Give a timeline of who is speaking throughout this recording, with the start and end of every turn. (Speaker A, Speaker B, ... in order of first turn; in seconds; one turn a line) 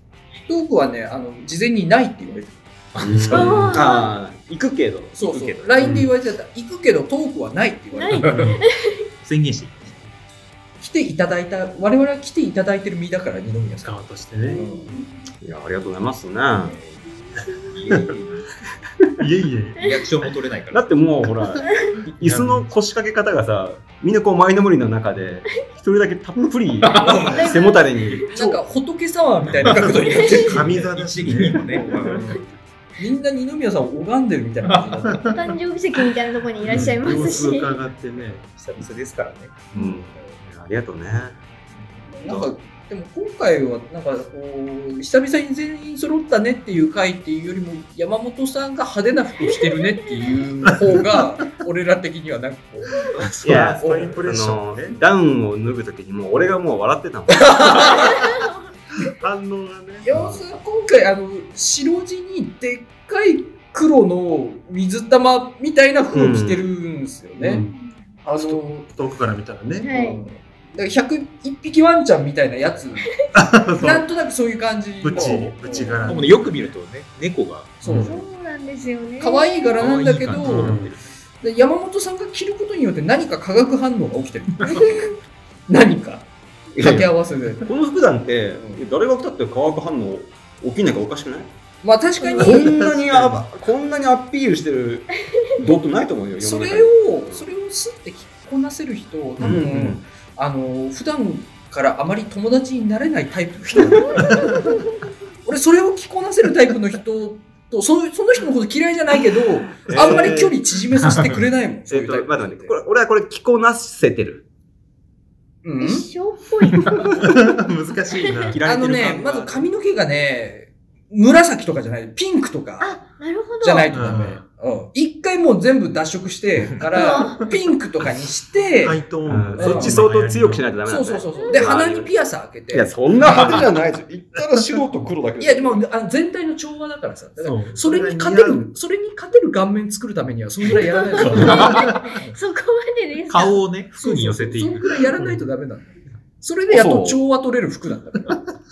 Speaker A: 0.5-2.6
Speaker B: 3.0-3.8
Speaker C: 3.0-5.2
Speaker D: 3.3-4.1
Speaker A: 5.1-8.6
Speaker B: 5.2-5.8
Speaker E: 5.8-6.1
Speaker D: 7.9-9.0
Speaker B: 8.1-8.6
Speaker E: 8.3-8.6
Speaker B: 9.2-10.0
Speaker A: 10.8-15.0
Speaker E: 13.8-14.6
Speaker D: 14.4-15.0
Speaker C: 15.4-16.8
Speaker D: 17.4-17.7
Speaker B: 17.6-18.5
Speaker E: 19.2-19.9
Speaker B: 19.8-20.9
Speaker C: 20.7-28.2
Speaker E: 22.2-22.7
Speaker B: 26.8-27.6
Speaker D: 27.3-28.2
Speaker A: 28.3-30.8
Speaker E: 29.6-32.4
Speaker B: 29.6-32.4
Speaker D: 30.0-30.5
Speaker A: 33.0-35.4
Speaker B: 34.6-35.0
Speaker E: 35.0-35.5
Speaker D: 35.3-37.8
Speaker E: 36.6-38.4
Speaker B: 38.5-39.6
Speaker C: 39.7-41.4
Speaker A: 42.1-54.2
Speaker D: 42.2-42.5
Speaker D: 49.7-50.1
Speaker E: 53.1-55.0
Speaker C: 53.4-58.0
Speaker A: 57.3-58.3
Speaker D: 58.0-58.5
Speaker E: 59.0-60.2
Speaker A: 60.0-67.6
Speaker C: 66.1-66.7
Speaker A: 68.2-68.9
Speaker E: 68.4-69.9
Speaker D: 69.8-70.2
Speaker A: 69.8-73.1
Speaker E: 73.3-74.0
Speaker A: 73.8-76.1
Speaker E: 75.0-76.5
Speaker D: 75.2-76.0
Speaker B: 76.1-77.8
Speaker A: 77.8-78.2
Speaker E: 77.8-78.1
Speaker D: 78.0-80.0
Speaker A: 79.2-85.1
Speaker B: 79.8-81.0
Speaker E: 80.4-80.9
Speaker D: 84.7-85.0
Speaker A: 85.7-87.7
Speaker C: 86.7-91.5
Speaker A: 91.8-92.8
Speaker D: 92.2-92.5
Speaker C: 92.4-97.5
Speaker E: 92.6-93.3
Speaker A: 96.4-104.5
Speaker C: 99.4-100.0
Speaker D: 104.4-104.8
Speaker A: 105.5-112.7
Speaker C: 109.9-110.5
Speaker E: 109.9-110.5
Speaker C: 111.9-114.4
Speaker A: 115.6-116.1
Speaker D: 115.8-118.5
Speaker E: 116.9-118.6
Speaker B: 118.5-119.7
Speaker A: 118.6-123.0
Speaker D: 122.8-123.9
Speaker A: 123.6-129.0
Speaker E: 123.9-124.4
Speaker D: 126.9-127.5
Speaker E: 128.8-130.6
Speaker C: 129.2-132.1
Speaker A: 129.6-130.0
Speaker A: 130.9-133.6
Speaker D: 131.4-131.8
Speaker C: 132.7-135.8
Speaker A: 135.4-142.4
Speaker E: 137.4-138.7
Speaker D: 140.9-143.6
Speaker E: 141.4-142.1
Speaker B: 143.3-145.0
Speaker A: 143.9-148.4
Speaker C: 146.7-147.2